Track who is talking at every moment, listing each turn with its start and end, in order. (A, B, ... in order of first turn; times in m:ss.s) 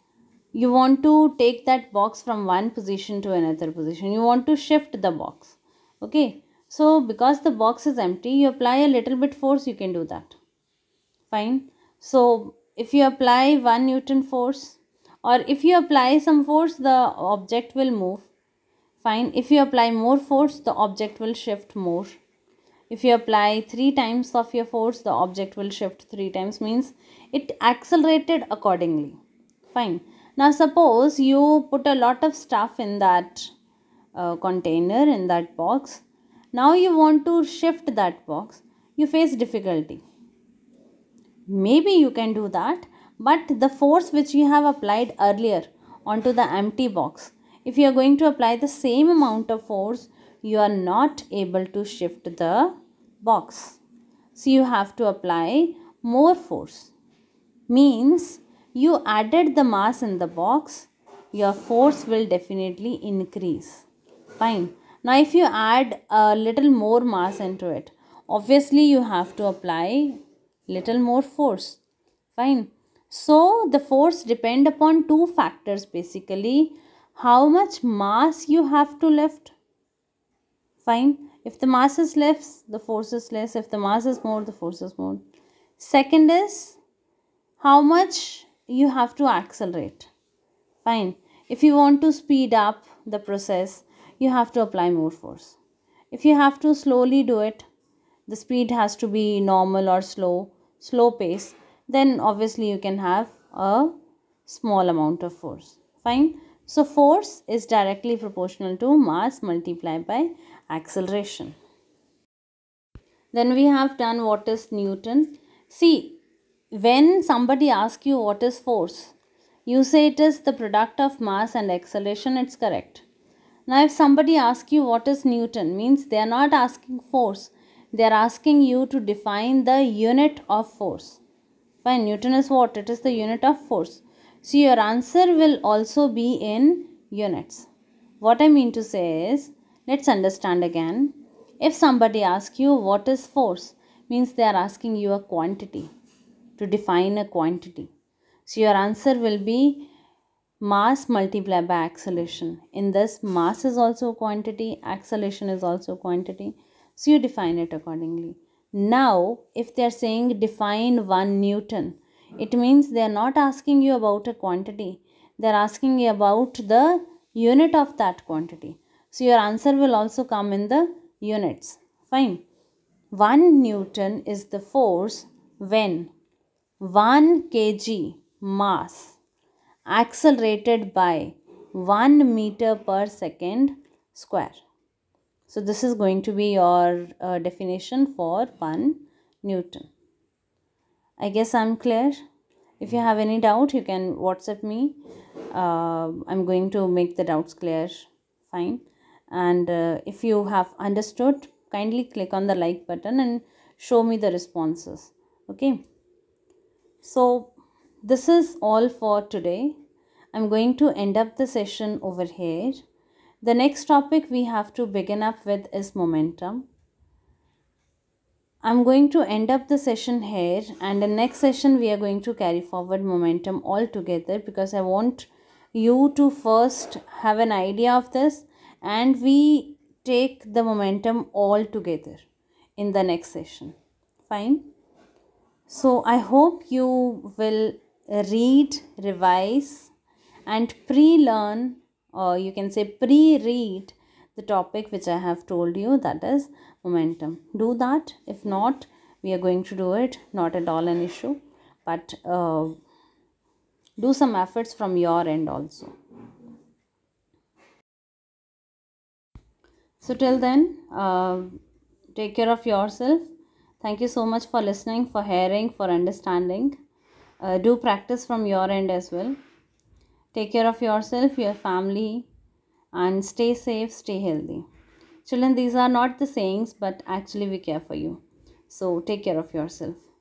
0:00.5-0:10.4 A
0:11.3-0:18.3 A
0:19.0-0:22.2 A
0:22.9-0:33.5 A
0:34.2-0:40.0 A
0:41.5-0:53.8 A
0:54.4-0:56.9 A
0:57.7-1:03.9 A
1:04.4-1:11.8 A
1:12.3-1:19.6 A
1:20.8-1:25.2 A
1:25.8-1:26.8 A
1:27.6-1:30.1 A
1:30.8-1:35.6 A
1:36.1-1:37.7 A
1:38.3-1:43.9 A
1:44.5-1:51.6 A
1:53.3-1:56.2 A
1:56.7-1:59.1 A
1:59.7-2:03.0 A
2:03.7-2:11.2 A
2:11.8-2:17.7 A
2:18.2-2:25.9 A
2:26.6-2:27.9 A
2:28.5-2:29.9 A
2:30.6-2:52.4 A
2:53.1-2:56.1 A
2:56.8-2:59.2 A
2:59.9-3:04.6 A
3:05.5-3:09.9 A
3:11.2-3:12.2 A
3:12.8-3:15.0 A
3:15.5-3:25.8 A
3:27.0-3:29.8 A
3:30.3-3:32.8 A
3:33.4-3:36.7 A
3:38.6-3:52.3 A
3:52.8-3:53.8 A
3:54.3-3:54.7 A
3:55.7-3:59.9 A
4:00.5-4:12.8 A
4:14.0-4:15.9 A
4:20.0-4:21.6 A
4:22.1-4:23.3 A
4:23.8-4:26.8 A
4:27.4-4:29.4 A
4:30.3-4:32.3 A
4:32.9-4:34.6 A
4:35.2-4:40.0 A